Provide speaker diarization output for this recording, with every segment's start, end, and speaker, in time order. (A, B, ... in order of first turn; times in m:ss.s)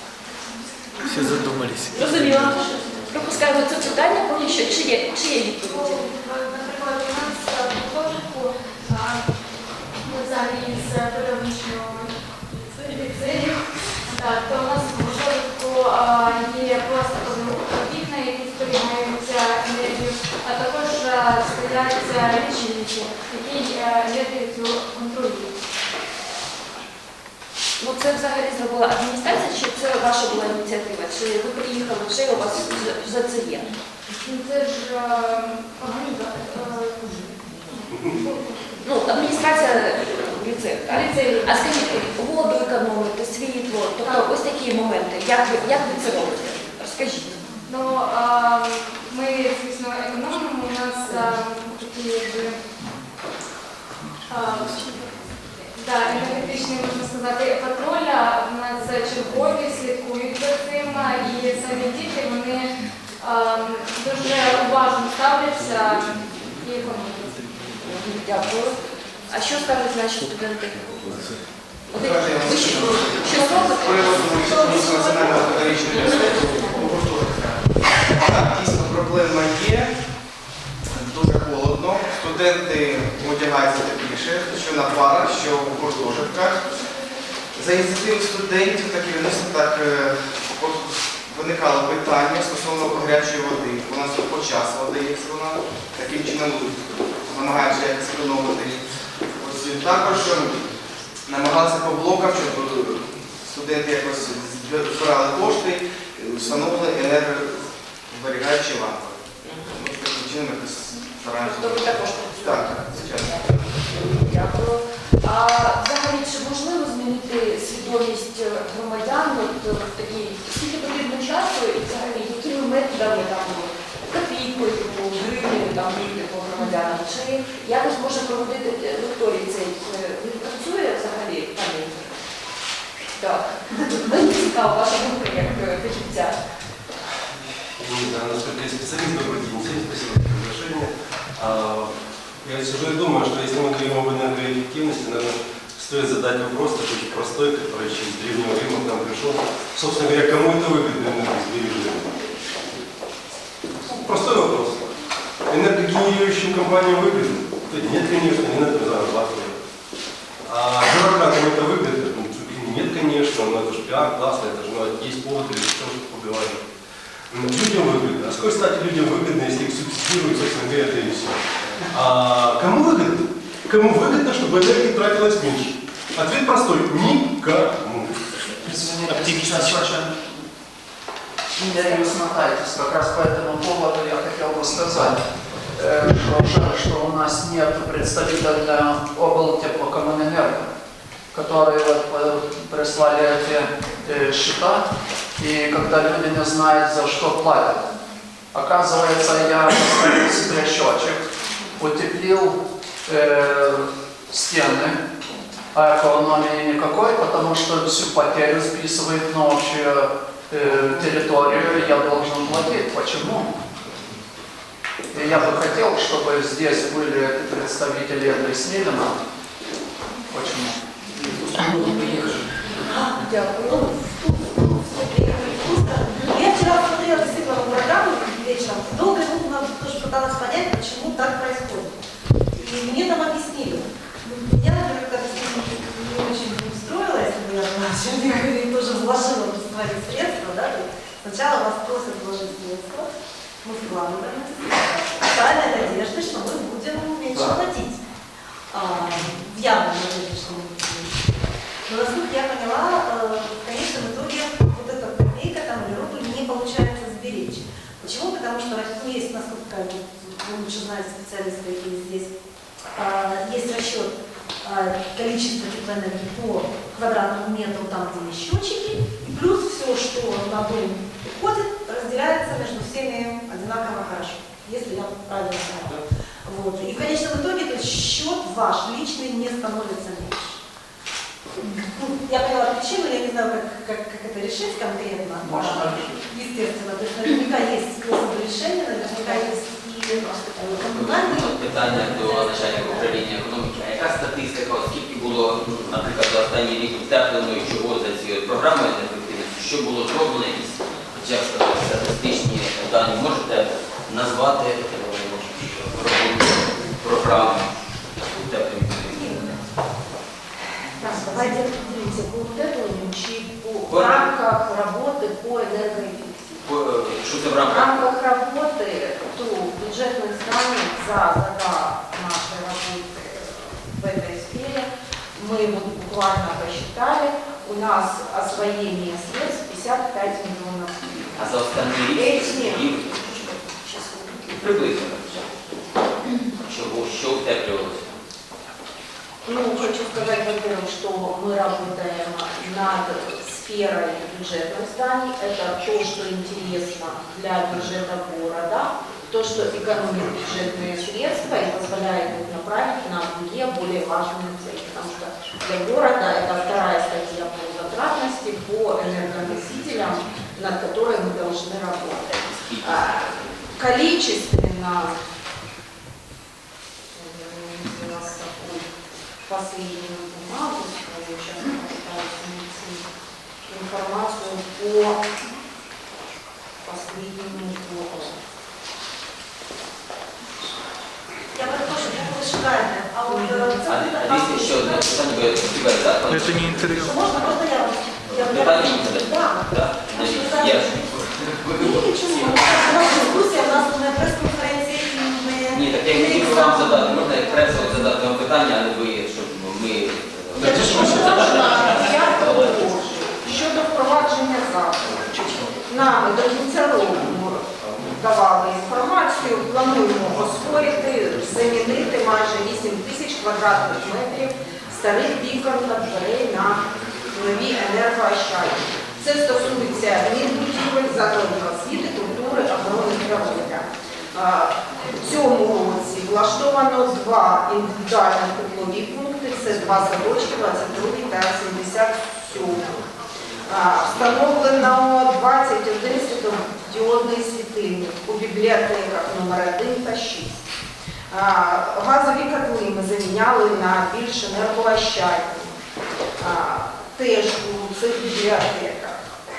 0:01.1-0:02.3 A
0:01.9-0:06.0 B
0:05.6-0:09.3 C
0:10.0-0:12.1 C
0:12.7-0:25.5 C
0:27.8-0:33.7 B
0:34.1-0:38.8 C
0:38.8-0:47.4 B
0:40.9-0:41.7 C
0:44.0-0:44.3 C
0:47.6-0:52.6 C
0:54.3-1:07.4 C
1:07.8-1:11.2 B
1:11.9-1:16.5 B
1:11.9-1:20.0 D
1:14.5-1:15.4 C
1:20.9-1:26.9 D
1:27.5-1:40.7 D
1:41.3-1:53.6 D
1:49.4-1:49.7 B
1:51.4-2:12.1 B
2:13.2-2:16.4 B
2:17.4-2:32.2 E
2:33.8-2:34.9 E
2:35.5-2:39.6 E
2:40.4-2:46.7 E
2:47.3-2:59.8 E
2:58.8-3:00.3 F
2:59.1-2:59.8 A
3:01.6-3:10.7 F
3:11.3-3:14.9 F
3:15.4-3:17.9 F
3:18.5-3:21.2 F
3:21.8-3:25.0 F
3:25.7-3:33.6 F
3:35.1-3:39.2 F
3:40.3-3:40.8 F
3:41.6-3:42.3 B
3:41.7-3:42.4 F
3:42.8-4:03.1 G
3:43.2-3:43.9 B
4:03.6-4:08.0 G
4:08.7-4:22.3 G
4:22.9-4:40.6 G
4:41.6-4:53.2 G
4:45.4-4:46.2 F
4:50.6-5:09.5 H
5:09.1-5:09.5 G
5:10.9-5:16.6 I
5:13.9-5:14.3 H
5:16.6-5:18.1 H
5:17.6-5:33.2 I
5:31.4-5:35.8 H
5:36.6-5:38.2 H
5:39.4-6:05.1 I
6:02.4-6:03.5 H
6:07.1-6:08.9 I
6:09.5-6:13.0 I
6:13.7-6:15.2 I
6:16.8-6:18.4 I
6:21.5-6:25.7 G
6:23.8-6:27.1 H
6:26.3-6:26.9 A
6:26.6-6:38.2 G
6:28.3-6:33.2 H
6:35.7-6:42.9 H
6:40.6-7:13.0 I
6:40.6-6:42.6 G
7:13.7-7:20.6 I
7:21.3-7:25.7 I
7:26.4-7:29.2 I